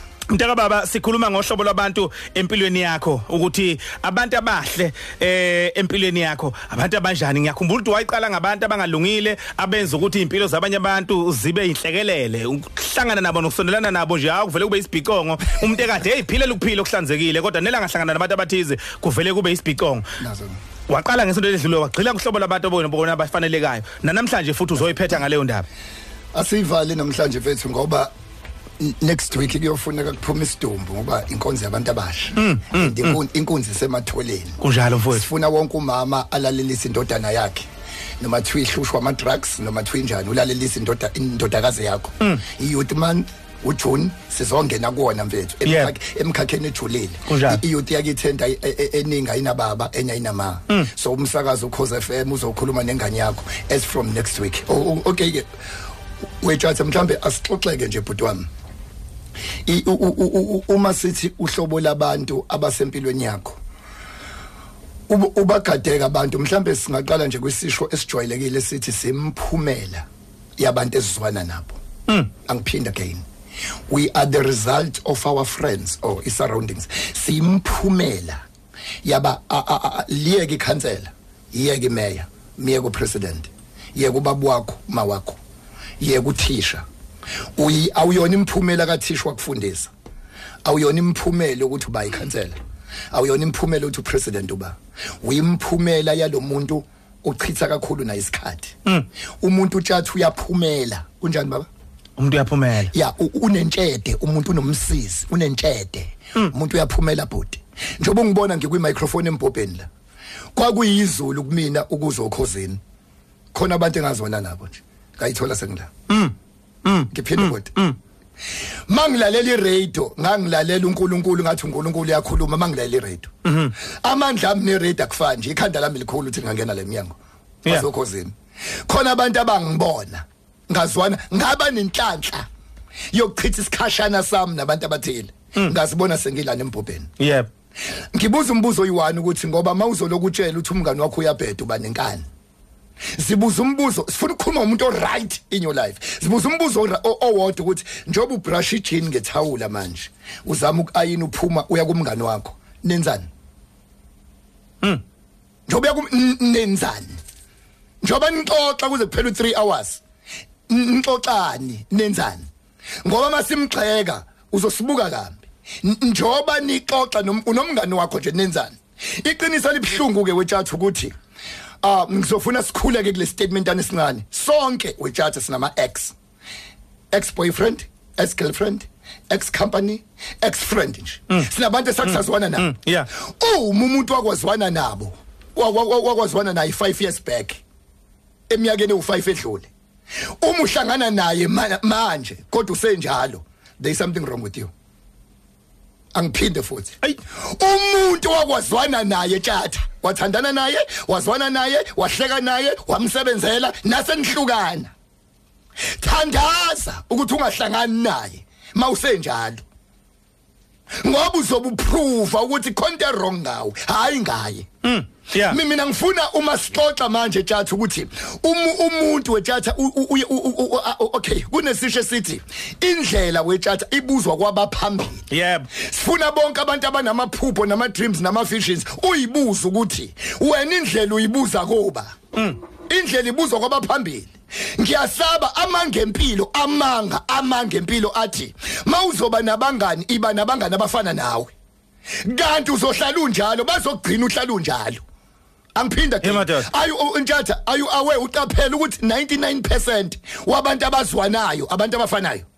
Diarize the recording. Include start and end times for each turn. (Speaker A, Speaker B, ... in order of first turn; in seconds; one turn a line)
Speaker A: 0.3-20.1
Speaker B: 20.2-20.6
Speaker A: 20.9-25.6
Speaker B: 26.3-28.1
Speaker B: 28.8-37.7
Speaker A: 32.4-33.1
Speaker A: 34.6-35.2
Speaker B: 38.2-55.5
Speaker A: 45.6-45.9
Speaker A: 47.3-47.6
Speaker B: 56.4-58.5
Speaker B: 59.6-63.6
Speaker B: 65.1-71.8
Speaker B: 72.5-73.2
Speaker B: 73.9-78.4
Speaker B: 79.0-85.4
Speaker B: 86.0-86.8
Speaker B: 87.6-89.9
Speaker B: 90.6-92.6
Speaker B: 93.1-98.8
Speaker B: 99.4-101.7
Speaker A: 102.2-102.9
Speaker B: 102.9-109.9
Speaker B: 110.5-112.8
Speaker B: 113.5-115.9
Speaker A: 116.1-116.3
Speaker A: 116.8-118.0
Speaker B: 117.1-117.8
Speaker B: 118.9-128.3
Speaker A: 123.4-123.7
Speaker B: 128.8-132.4
Speaker B: 133.1-137.1
Speaker A: 137.2-137.5
Speaker B: 138.1-142.2
Speaker B: 143.1-153.3
Speaker B: 155.7-157.2
Speaker B: 158.0-160.0
Speaker B: 160.7-162.4
Speaker B: 163.0-171.1
Speaker B: 171.8-176.1
Speaker B: 177.1-187.6
Speaker A: 182.0-183.1
Speaker B: 188.5-189.7
Speaker B: 190.4-194.7
Speaker B: 196.1-204.9
Speaker B: 206.0-209.6
Speaker B: 211.0-214.7
Speaker A: 214.8-215.6
Speaker B: 215.4-232.2
Speaker A: 225.3-225.7
Speaker B: 232.9-241.5
Speaker B: 242.2-245.0
Speaker B: 245.7-252.5
Speaker A: 246.2-246.7